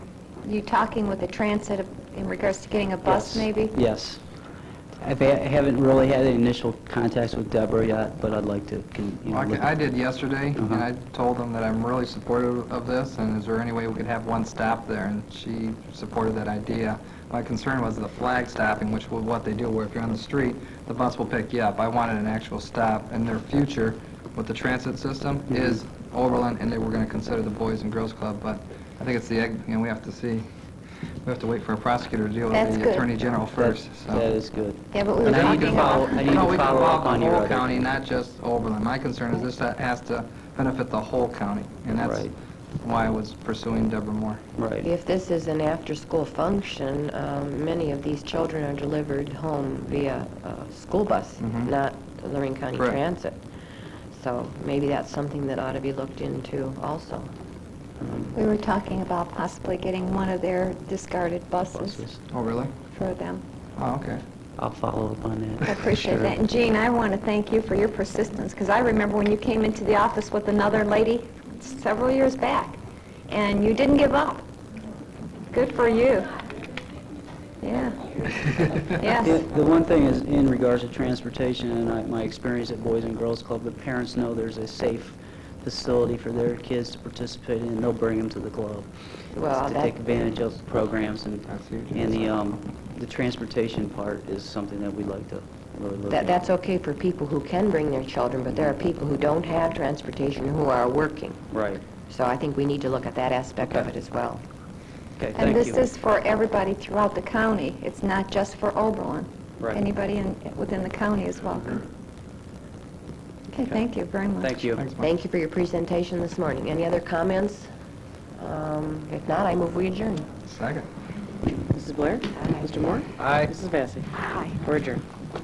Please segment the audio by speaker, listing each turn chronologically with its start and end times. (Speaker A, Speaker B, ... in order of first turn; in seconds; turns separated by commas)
Speaker A: 0.4-3.8, Speaker B: 3.0-4.2, Speaker B: 5.0-9.8, Speaker C: 9.3-30.4, Speaker B: 10.6-10.8, Speaker C: 31.2-34.3, Speaker A: 32.5-33.1, Speaker B: 33.5-37.9, Speaker A: 34.9-36.3, Speaker C: 35.2-44.4, Speaker B: 42.0-42.3, Speaker B: 44.6-44.9, Speaker D: 44.8-53.4, Speaker C: 51.4-51.7, Speaker D: 54.1-57.3, Speaker B: 58.0-58.3, Speaker A: 58.3-62.0, Speaker B: 61.7-62.2, Speaker C: 62.3-62.7, Speaker A: 62.9-63.4, Speaker C: 63.8-64.2, Speaker B: 64.6-66.4, Speaker A: 65.6-74.4, Speaker A: 75.5-76.3, Speaker A: 77.6-78.2, Speaker A: 78.8-79.5, Speaker B: 79.2-88.9, Speaker D: 89.3-90.0, Speaker B: 89.4-96.4, Speaker C: 91.5-92.4, Speaker D: 96.1-101.5, Speaker B: 101.5-101.8, Speaker D: 102.1-104.4, Speaker B: 105.2-105.8, Speaker A: 105.3-111.8, Speaker A: 113.5-114.5, Speaker B: 114.4-114.8, Speaker C: 114.8-115.1, Speaker D: 115.0-117.7, Speaker D: 118.3-120.3, Speaker C: 120.4-120.9, Speaker E: 121.7-125.0, Speaker D: 121.8-123.0, Speaker C: 123.2-123.5, Speaker D: 124.1-124.9